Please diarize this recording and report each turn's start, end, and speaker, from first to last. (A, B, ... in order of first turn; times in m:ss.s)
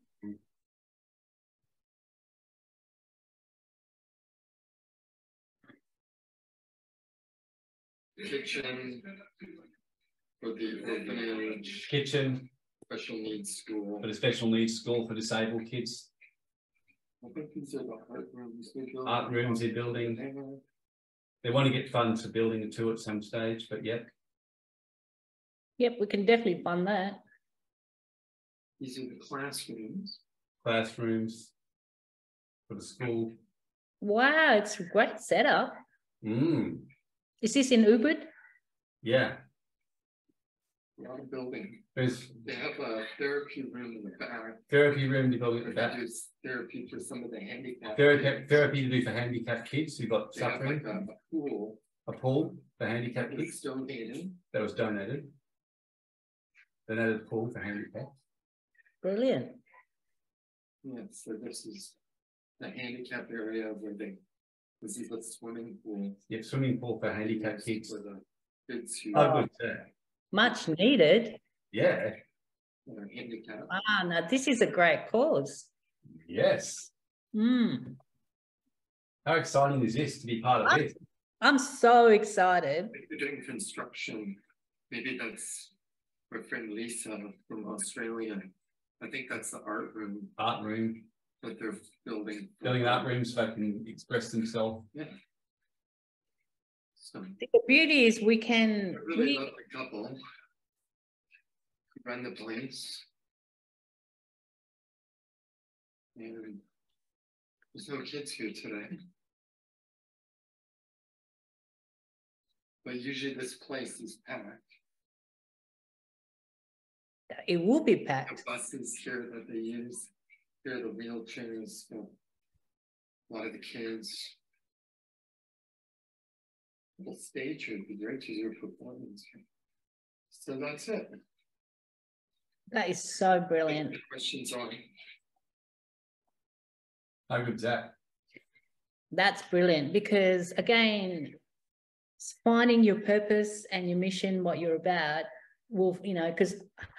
0:08.2-0:09.1 A
0:10.4-0:11.9 A
0:11.8-0:12.5 B
0:12.9-0:14.1 A
0:14.0-0:16.1 B
0:17.2-0:20.6 A
0:19.0-0:20.2 B
0:21.4-0:24.1 B
0:25.8-0:27.2 C
0:28.8-0:30.2 A
0:30.6-0:31.5 B
0:32.7-0:33.4 B
0:34.0-0:35.8 C
0:36.2-0:36.9 B
0:37.4-0:38.3 C
0:39.0-0:39.4 B
0:41.0-0:41.8 A
0:42.0-0:42.4 B
0:42.4-0:44.6 A
0:44.7-0:46.0 B
0:45.6-0:48.6 A
0:48.0-0:50.9 B
0:50.3-0:51.8 A
0:52.1-0:53.6 B
0:53.2-0:54.4 A
0:54.5-0:55.3 B
0:56.9-0:58.2 B
0:59.0-0:59.6 C
1:00.8-1:02.0 A
1:02.6-1:04.2 A
1:04.8-1:06.2 A
1:06.3-1:08.0 B
1:07.2-1:09.5 A
1:09.1-1:09.9 B
1:09.1-1:09.5 C
1:10.3-1:11.4 C
1:11.7-1:12.2 B
1:12.9-1:13.7 A
1:13.7-1:15.7 C
1:16.2-1:16.9 B
1:17.3-1:18.0 C
1:19.3-1:21.0 B
1:20.6-1:20.9 C
1:21.4-1:23.0 C
1:22.9-1:25.7 A
1:26.3-1:30.3 A
1:30.4-1:31.0 B
1:31.4-1:33.1 A
1:32.6-1:34.9 B
1:37.0-1:37.4 A
1:37.4-1:39.5 C
1:39.0-1:40.2 A
1:42.0-1:43.1 A
1:46.2-1:46.6 A
1:47.7-1:49.0 A
1:52.8-1:54.7 A
1:57.5-1:58.4 C
1:58.3-2:00.1 A
2:00.6-2:02.1 A
2:03.3-2:04.4 A
2:07.0-2:09.4 A
2:10.3-2:11.1 A
2:12.7-2:14.0 C
2:13.7-2:14.9 A
2:17.3-2:18.0 B
2:19.1-2:21.4 C
2:22.2-2:26.7 C